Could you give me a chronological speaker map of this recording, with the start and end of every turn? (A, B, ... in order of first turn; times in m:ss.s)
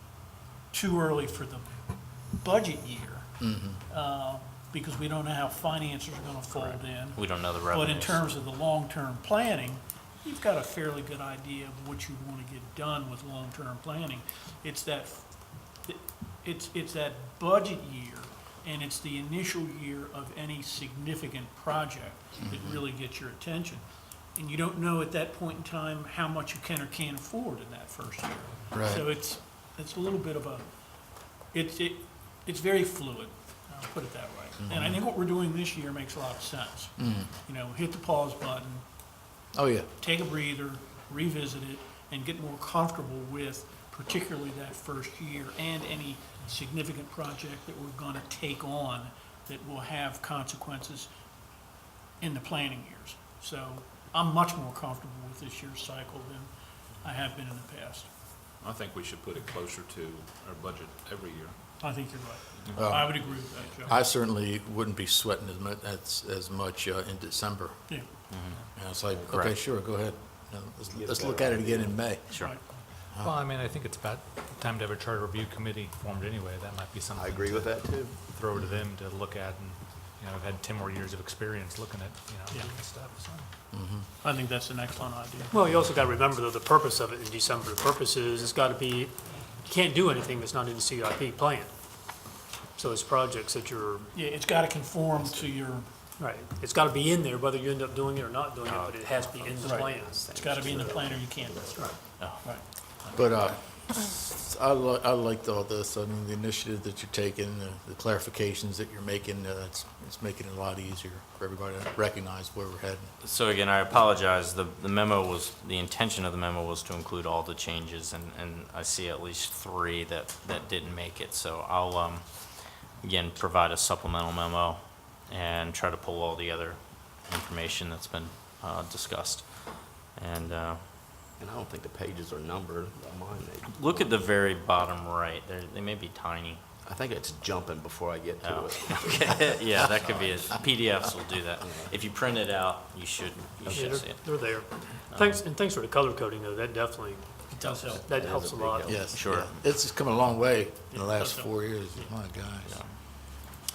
0:00.7-0:01.7 A
0:02.4-0:03.3 A
0:03.4-0:03.8 B
0:03.9-0:15.3 A
0:06.5-0:08.2 C
0:15.8-0:23.8 A
0:22.5-0:22.8 B
0:24.4-0:30.6 A
0:28.7-0:29.0 B
0:31.5-0:38.8 A
0:34.6-0:35.0 B
0:37.0-0:37.3 B
0:39.5-0:39.9 B
0:40.0-0:51.1 A
0:52.2-0:58.1 A
0:58.6-1:01.6 D
1:01.8-1:04.0 A
1:02.7-1:03.1 B
1:03.9-1:07.9 B
1:08.3-1:08.6 C
1:08.7-1:12.4 B
1:09.3-1:09.5 C
1:10.9-1:12.0 E
1:12.3-1:12.6 A
1:13.2-1:23.5 F
1:17.1-1:18.2 E
1:18.5-1:18.8 B
1:23.7-1:24.1 B
1:24.2-1:25.5 A
1:25.5-1:31.7 G
1:32.8-1:34.1 G
1:34.1-1:35.9 A
1:36.2-1:40.1 G
1:38.6-1:39.8 C
1:39.6-1:42.6 A
1:39.6-1:42.0 E
1:43.1-1:53.1 B
1:53.2-2:11.1 C
2:11.4-2:14.1 E
2:13.7-2:16.6 C
2:16.8-2:20.7 E
2:18.4-2:25.4 C
2:21.6-2:22.1 E
2:23.6-2:24.2 E
2:23.8-2:27.3 G
2:27.5-2:28.2 A
2:27.7-2:29.3 E
2:28.1-2:28.8 G
2:28.8-2:32.8 B
2:29.1-2:29.6 C
2:30.9-2:32.1 A
2:32.6-2:32.9 C